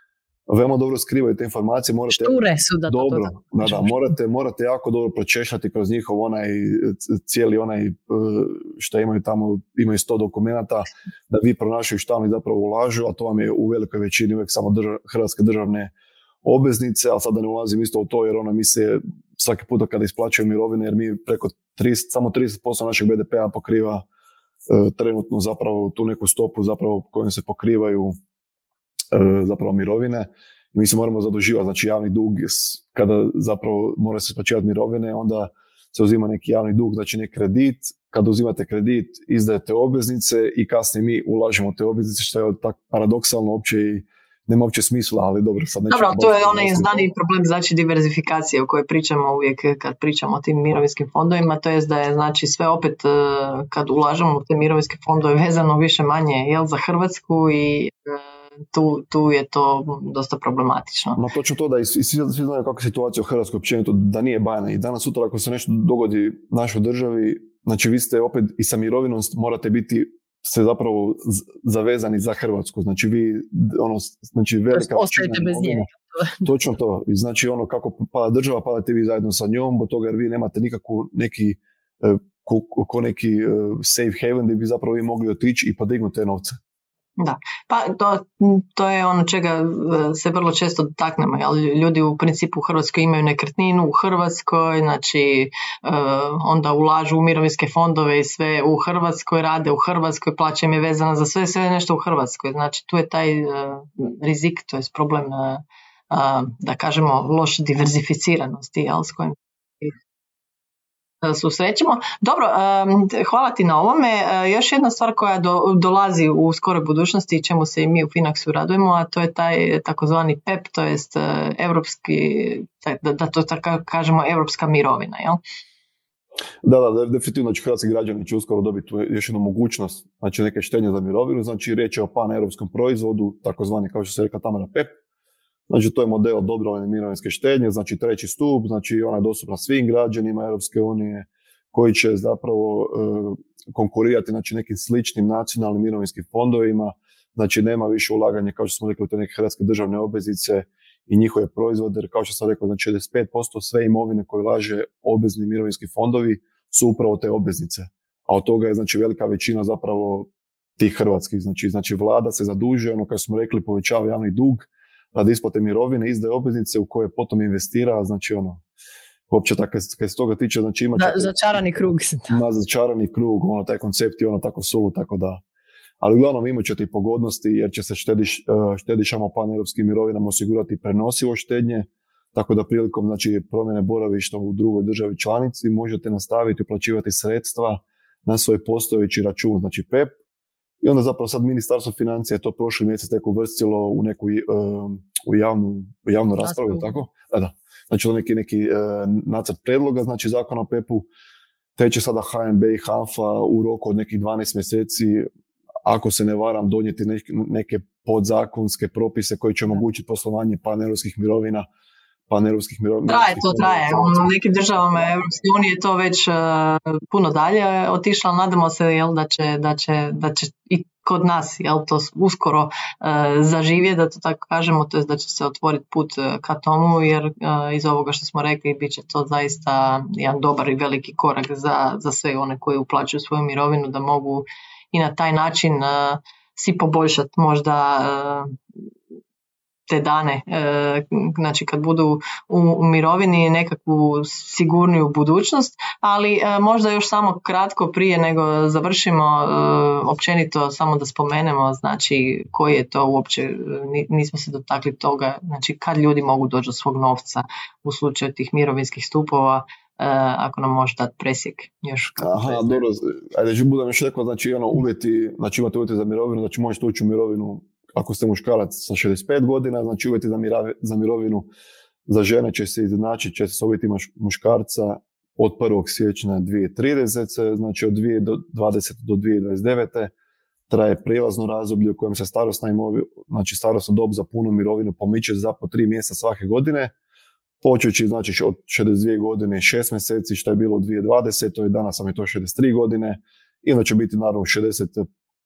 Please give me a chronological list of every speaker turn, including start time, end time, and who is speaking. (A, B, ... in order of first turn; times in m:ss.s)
0:00.5-0:15.9 A
0:02.1-0:03.9 B
0:16.4-0:24.0 A
0:24.7-0:28.1 A
0:29.1-0:47.1 A
0:45.9-1:01.2 B
1:01.2-1:15.9 A
1:14.7-1:16.4 B
1:16.4-1:26.6 A
1:27.2-1:49.9 B
1:51.2-2:05.4 B
2:06.6-2:14.9 A
2:15.7-2:48.6 A
2:49.3-2:51.4 A
2:51.0-2:52.3 B
2:52.3-2:55.4 A
2:56.0-3:10.1 A
3:10.8-3:21.1 A
3:16.4-3:17.0 B
3:21.8-3:25.2 A
3:25.8-3:31.6 A
3:32.3-3:35.3 A
3:33.1-3:58.5 B
3:59.9-4:22.8 B
4:22.2-4:31.5 A
4:32.1-4:40.1 A
4:40.7-4:46.9 A
4:47.6-4:55.0 A